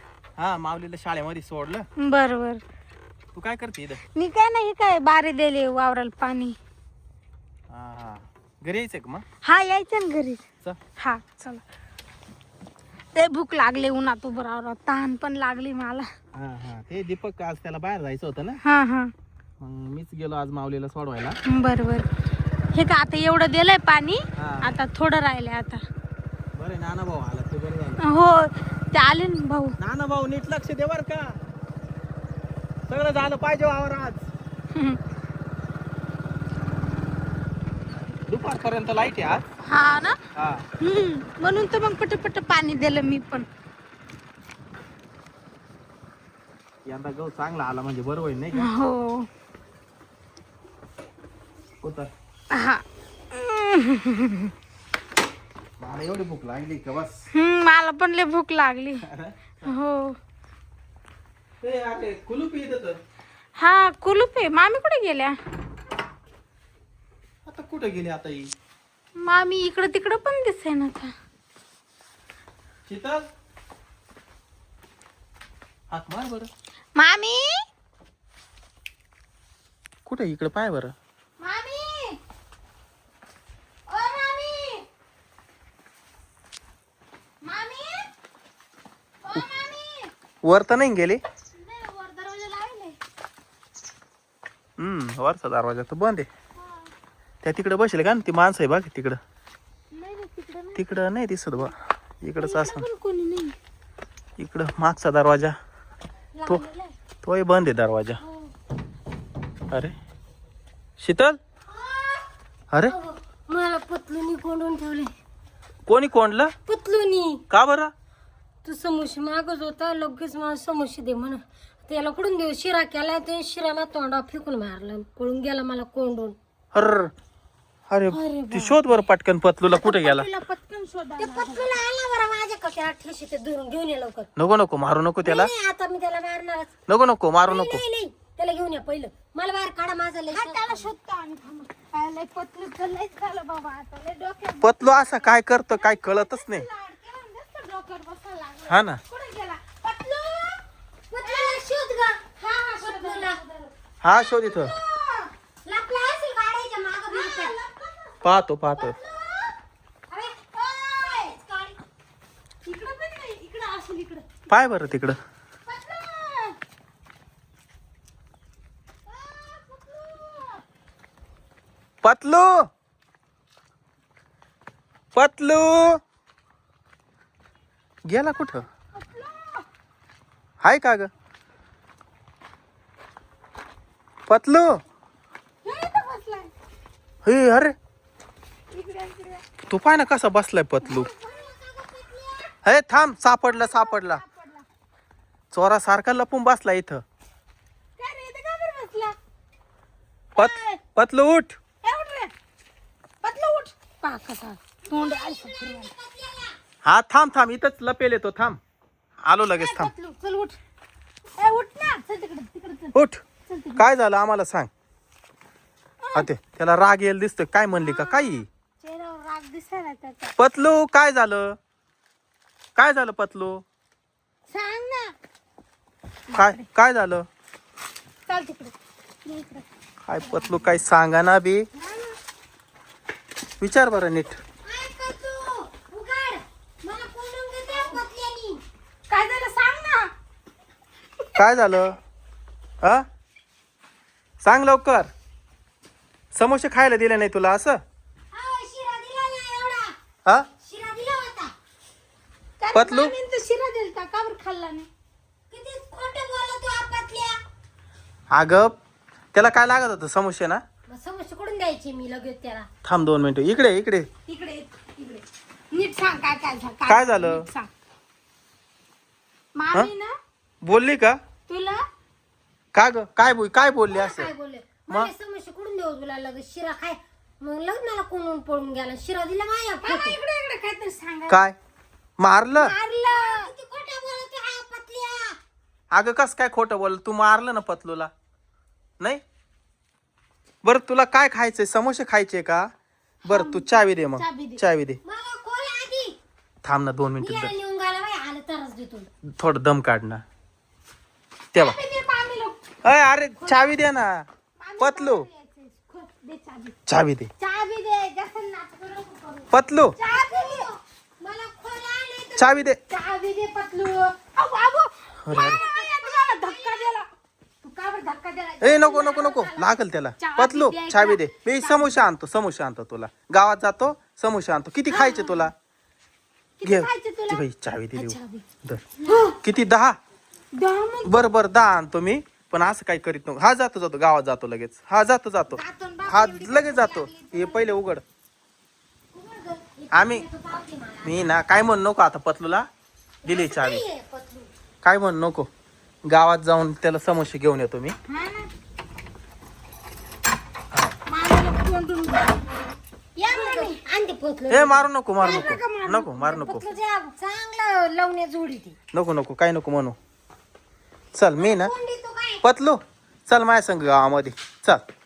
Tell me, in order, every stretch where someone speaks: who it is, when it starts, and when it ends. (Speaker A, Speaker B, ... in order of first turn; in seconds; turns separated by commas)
Speaker A: 0.4-1.9, Speaker B: 2.0-2.6, Speaker A: 3.4-4.0, Speaker B: 4.2-6.6, Speaker A: 7.7-9.2, Speaker B: 9.4-10.4, Speaker B: 11.0-11.6, Speaker B: 13.2-16.1, Speaker A: 16.3-18.6, Speaker B: 18.6-19.1, Speaker A: 19.6-21.4, Speaker B: 21.4-22.1, Speaker B: 22.7-25.8, Speaker A: 24.4-24.8, Speaker A: 26.6-28.0, Speaker B: 28.0-29.8, Speaker A: 29.8-31.4, Speaker A: 32.9-34.2, Speaker B: 34.7-35.0, Speaker A: 38.3-39.5, Speaker B: 39.6-40.2, Speaker A: 40.4-40.6, Speaker B: 40.8-43.5, Speaker A: 46.9-48.7, Speaker B: 48.5-49.3, Speaker A: 51.8-52.1, Speaker B: 52.5-54.5, Speaker A: 55.8-57.2, Speaker B: 57.3-59.1, Speaker A: 59.0-59.7, Speaker B: 59.6-60.2, Speaker A: 61.6-63.0, Speaker B: 63.6-65.4, Speaker A: 67.5-68.5, Speaker B: 69.2-71.1, Speaker A: 72.9-73.3, Speaker A: 75.9-76.5, Speaker B: 77.0-77.7, Speaker A: 80.1-81.0, Speaker B: 81.4-82.2, Speaker B: 83.9-84.8, Speaker B: 87.4-88.1, Speaker B: 89.2-90.1, Speaker A: 90.4-91.2, Speaker B: 91.6-93.0, Speaker A: 94.8-96.3, Speaker B: 96.6-96.9, Speaker A: 97.4-99.2, Speaker B: 99.9-100.9, Speaker A: 100.8-102.9, Speaker B: 102.4-103.5, Speaker A: 104.4-105.5, Speaker C: 106.3-106.9, Speaker A: 107.2-108.2, Speaker A: 111.0-111.4, Speaker C: 111.7-112.2, Speaker C: 112.9-115.1, Speaker A: 115.9-116.5, Speaker C: 116.7-117.4, Speaker A: 117.5-117.9, Speaker C: 118.6-126.4, Speaker A: 126.7-127.1, Speaker A: 127.9-130.3, Speaker B: 128.1-128.9, Speaker B: 129.7-131.8, Speaker C: 131.2-134.3, Speaker A: 134.4-135.5, Speaker C: 135.2-136.7, Speaker A: 136.9-137.8, Speaker C: 137.4-140.9, Speaker B: 140.3-150.6, Speaker A: 144.6-146.7, Speaker A: 148.7-149.0, Speaker C: 151.1-153.4, Speaker B: 151.1-151.7, Speaker B: 152.4-153.7, Speaker A: 154.0-154.7, Speaker B: 154.5-155.3, Speaker C: 155.7-157.6, Speaker B: 157.1-158.3, Speaker A: 158.2-159.0, Speaker C: 158.8-159.4, Speaker C: 160.1-161.8, Speaker B: 160.6-161.3, Speaker B: 162.7-164.3, Speaker A: 164.5-165.2, Speaker B: 165.7-166.6, Speaker B: 169.1-170.6, Speaker A: 172.0-172.7, Speaker A: 175.2-176.0, Speaker A: 178.1-178.7, Speaker B: 179.0-179.7, Speaker A: 180.6-181.1, Speaker A: 184.3-184.8, Speaker B: 185.6-186.5, Speaker A: 187.2-187.7, Speaker B: 188.7-189.4, Speaker A: 189.7-191.1, Speaker B: 190.8-192.5, Speaker C: 191.2-191.9, Speaker A: 192.6-194.2, Speaker B: 193.5-194.7, Speaker A: 195.5-197.0, Speaker B: 198.0-199.2, Speaker B: 200.4-200.8, Speaker A: 200.4-201.6, Speaker B: 201.8-202.3, Speaker B: 203.2-205.9, Speaker C: 204.9-206.6, Speaker A: 206.8-208.6, Speaker A: 209.2-209.9, Speaker B: 209.6-210.6, Speaker B: 211.4-212.9, Speaker A: 212.9-213.2, Speaker B: 213.5-213.8, Speaker A: 213.8-214.7, Speaker B: 216.0-216.3, Speaker A: 216.2-218.5, Speaker B: 217.8-220.3, Speaker A: 220.4-221.6, Speaker A: 222.8-223.6, Speaker B: 224.5-225.1, Speaker B: 226.3-226.7, Speaker A: 226.3-227.3, Speaker B: 228.3-228.7, Speaker B: 229.2-229.7, Speaker A: 230.1-231.7, Speaker B: 230.2-230.6, Speaker B: 231.8-232.2, Speaker A: 233.6-234.4, Speaker C: 234.6-238.6, Speaker B: 239.1-240.1, Speaker A: 241.4-242.0, Speaker A: 244.4-245.1, Speaker A: 246.3-247.8, Speaker C: 248.3-249.9, Speaker C: 250.6-251.5, Speaker B: 252.6-254.9, Speaker A: 252.7-253.1, Speaker C: 255.5-257.4, Speaker A: 258.3-258.7, Speaker A: 259.3-260.6, Speaker C: 260.9-262.7, Speaker A: 262.9-264.1, Speaker B: 264.3-267.7, Speaker A: 266.9-267.5, Speaker B: 269.6-270.1, Speaker A: 270.6-271.2, Speaker B: 271.5-271.8, Speaker A: 272.7-274.3, Speaker C: 273.9-280.2, Speaker B: 279.8-281.4, Speaker A: 281.3-281.6, Speaker A: 282.2-282.7, Speaker B: 282.6-283.5, Speaker C: 283.0-285.4, Speaker A: 285.9-288.1, Speaker A: 290.6-292.7, Speaker B: 293.2-294.6, Speaker A: 293.3-295.0, Speaker C: 295.0-296.2, Speaker A: 296.6-297.5, Speaker C: 297.2-299.1, Speaker A: 299.3-300.2, Speaker B: 301.5-302.6, Speaker A: 302.8-304.3, Speaker B: 303.4-303.8, Speaker B: 304.6-306.8, Speaker A: 304.8-305.3, Speaker A: 306.9-307.3, Speaker B: 307.4-310.7, Speaker A: 309.5-310.0, Speaker C: 310.1-312.6, Speaker A: 312.4-312.8, Speaker B: 312.9-317.1, Speaker A: 315.2-315.6, Speaker C: 315.3-316.9, Speaker B: 317.6-319.1, Speaker A: 318.6-325.5, Speaker C: 318.9-319.7, Speaker B: 320.2-322.0, Speaker B: 324.9-325.5, Speaker B: 326.6-328.4, Speaker A: 326.6-328.9, Speaker B: 329.0-329.4, Speaker C: 329.1-329.3, Speaker A: 329.4-330.0, Speaker B: 330.6-331.2, Speaker A: 331.0-338.0, Speaker B: 335.5-337.8, Speaker C: 339.1-341.2, Speaker A: 339.9-340.3, Speaker A: 341.0-342.7, Speaker C: 343.2-344.5, Speaker A: 343.2-343.9, Speaker A: 344.8-345.5, Speaker A: 346.1-347.9, Speaker B: 348.1-348.5, Speaker B: 351.1-352.4, Speaker B: 353.2-353.8, Speaker C: 353.3-354.9, Speaker A: 354.5-356.7, Speaker B: 355.2-356.7, Speaker C: 356.3-358.8, Speaker A: 358.9-360.0, Speaker A: 361.1-361.7, Speaker C: 361.4-362.4, Speaker A: 362.4-364.8